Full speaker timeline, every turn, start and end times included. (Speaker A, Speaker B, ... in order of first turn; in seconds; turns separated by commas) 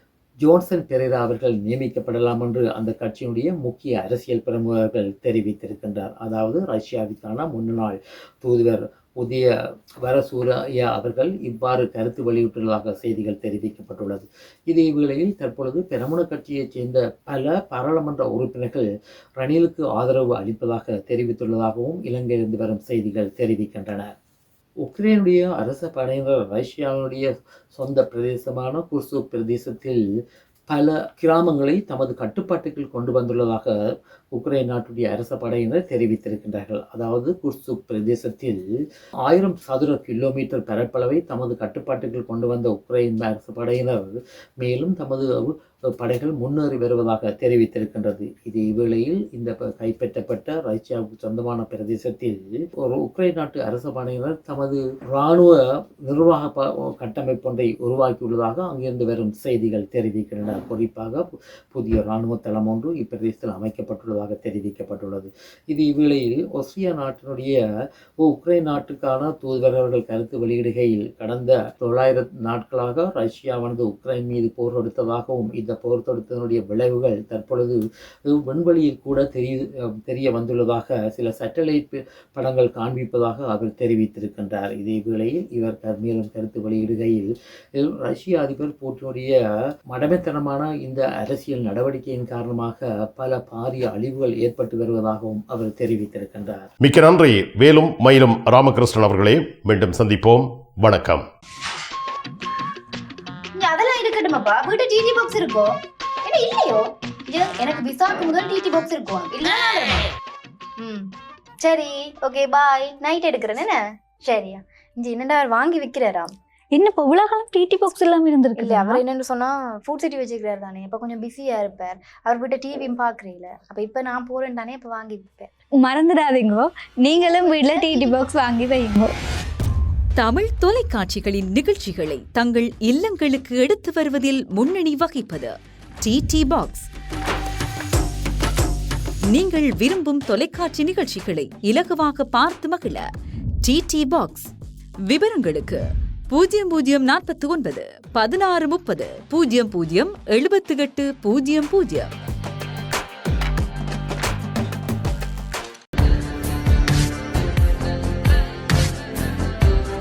Speaker A: 0.4-9.5, Speaker A: 10.0-18.9, Speaker A: 19.4-24.1, Speaker A: 24.8-30.0, Speaker A: 30.7-33.7, Speaker A: 34.3-38.6, Speaker A: 39.3-67.6, Speaker A: 68.2-89.3, Speaker A: 89.9-96.7, Speaker B: 96.8-101.2, Speaker C: 103.6-105.7, Speaker C: 106.2-110.1, Speaker C: 111.6-116.3, Speaker D: 116.8-119.0, Speaker C: 118.6-125.5, Speaker D: 125.9-126.7, Speaker C: 127.1-128.3, Speaker D: 128.6-129.1, Speaker E: 130.2-136.9, Speaker E: 139.3-143.1, Speaker E: 143.6-144.5, Speaker E: 145.0-152.1